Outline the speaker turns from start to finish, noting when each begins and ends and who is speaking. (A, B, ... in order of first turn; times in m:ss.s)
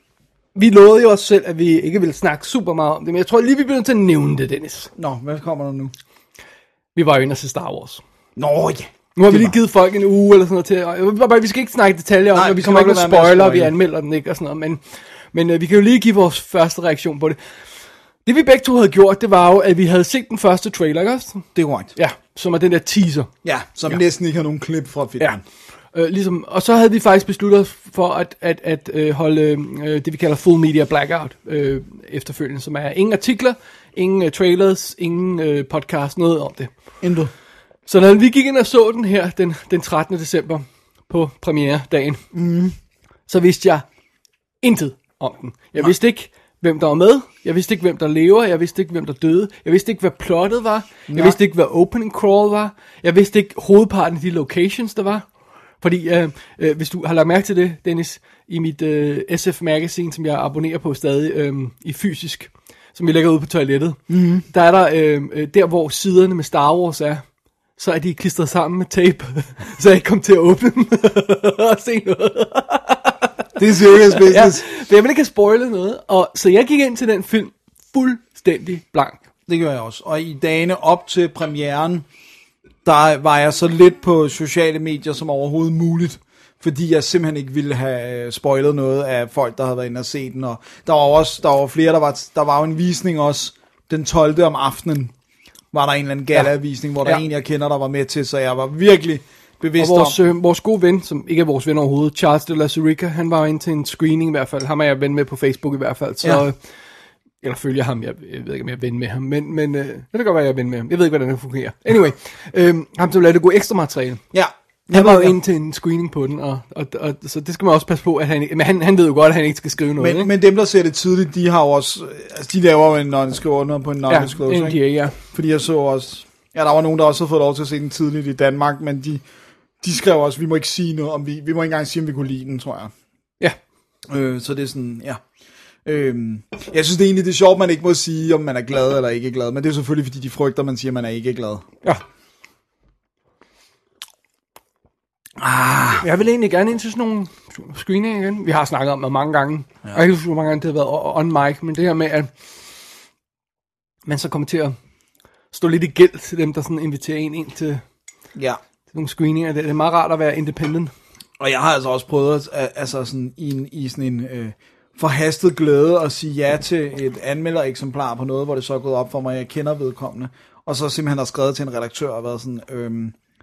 0:00.5-0:04.9 A
0:05.0-0:05.9 B
0:06.9-0:08.0 A
0:08.4-0:09.5 B
0:09.2-0:14.8 A
0:12.3-0:13.7 B
0:15.3-0:17.4 A
0:18.2-0:23.3 A
0:21.5-0:21.9 B
0:23.4-0:25.4 B
0:25.9-0:36.7 A
0:37.0-0:37.3 B
0:37.9-0:42.2 A
0:42.3-0:42.7 B
0:43.3-0:43.8 A
0:44.6-0:55.2 A
0:51.1-0:51.4 B
0:55.8-1:07.2 A
1:04.1-1:04.4 B
1:07.8-1:19.2 A
1:13.6-1:14.6 B
1:19.5-1:22.0 B
1:22.8-1:35.1 B
1:35.7-1:40.2 B
1:39.8-1:46.6 A
1:47.4-1:54.2 A
1:54.3-1:55.4 B
1:54.9-2:00.3 A
2:00.0-2:09.2 B
2:04.1-2:05.2 A
2:09.8-2:12.9 B
2:14.1-2:15.2 B
2:15.8-2:21.6 B
2:25.4-2:26.0 B
2:26.0-2:32.3 A
2:34.0-2:34.7 A
2:35.5-2:37.8 A
2:38.9-2:40.9 A
2:41.4-2:53.1 B